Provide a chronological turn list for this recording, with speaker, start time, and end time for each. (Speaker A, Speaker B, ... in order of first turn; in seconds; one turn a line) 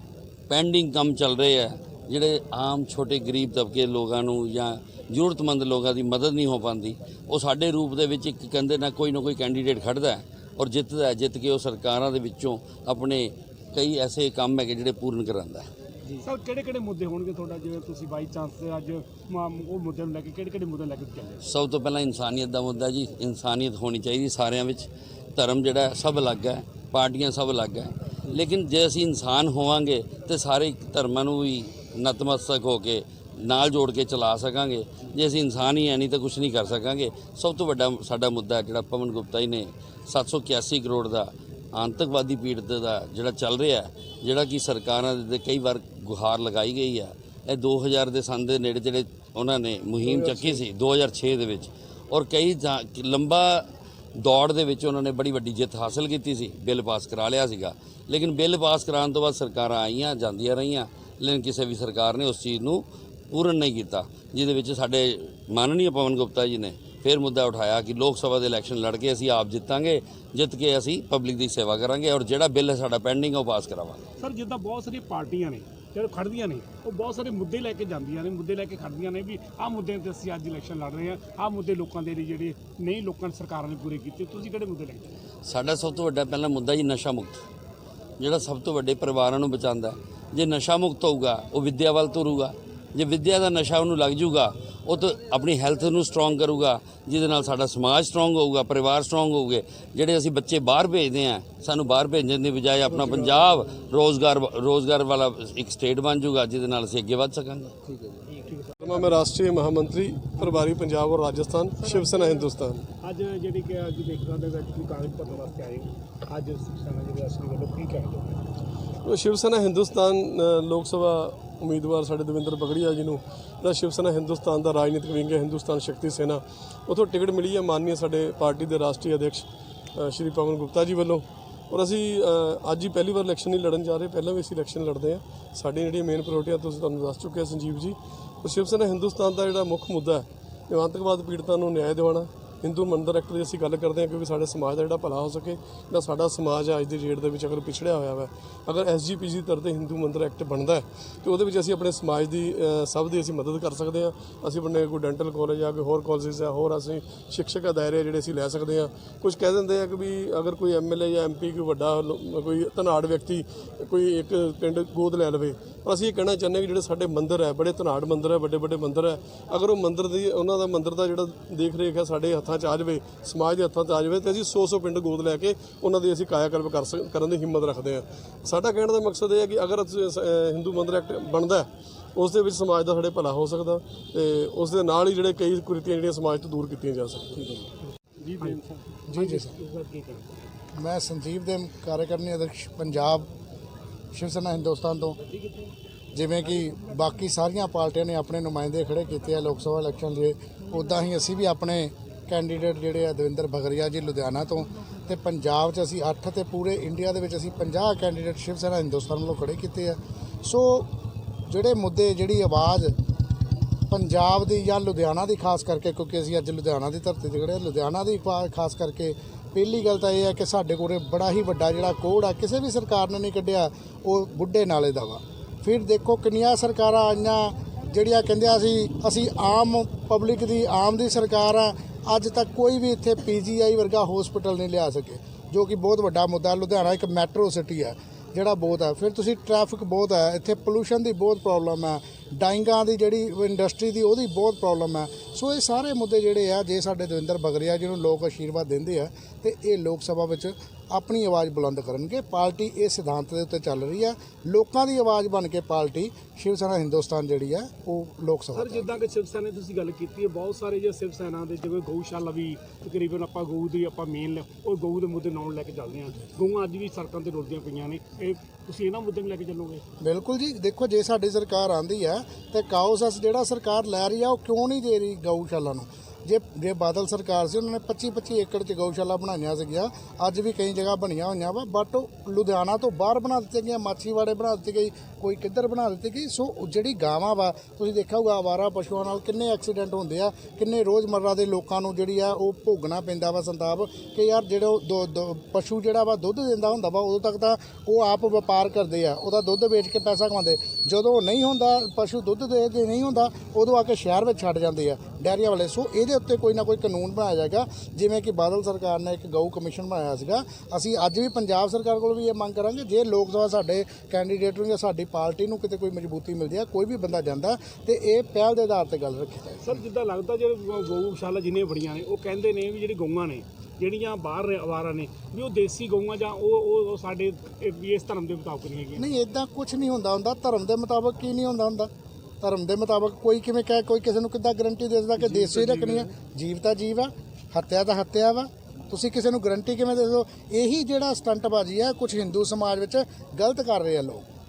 Speaker A: 0.5-15.7
Speaker B: 16.2-21.4
Speaker A: 21.4-53.6
Speaker C: 50.1-50.5
Speaker A: 54.2-74.1
Speaker B: 74.2-85.1
Speaker A: 85.4-87.4
Speaker A: 88.2-107.7
Speaker B: 108.4-109.1
Speaker C: 108.8-112.8
Speaker B: 111.8-118.5
Speaker C: 119.0-187.6
Speaker C: 188.3-188.6
Speaker B: 188.4-190.4
Speaker D: 189.1-189.5
Speaker D: 190.7-193.3
Speaker D: 194.1-195.2
Speaker D: 196.1-210.9
Speaker D: 211.5-213.0
Speaker D: 213.9-258.9
Speaker B: 258.5-269.8
Speaker D: 270.0-319.8
Speaker B: 319.6-329.0
Speaker D: 328.9-331.9
Speaker D: 332.4-344.2
Speaker B: 335.2-336.1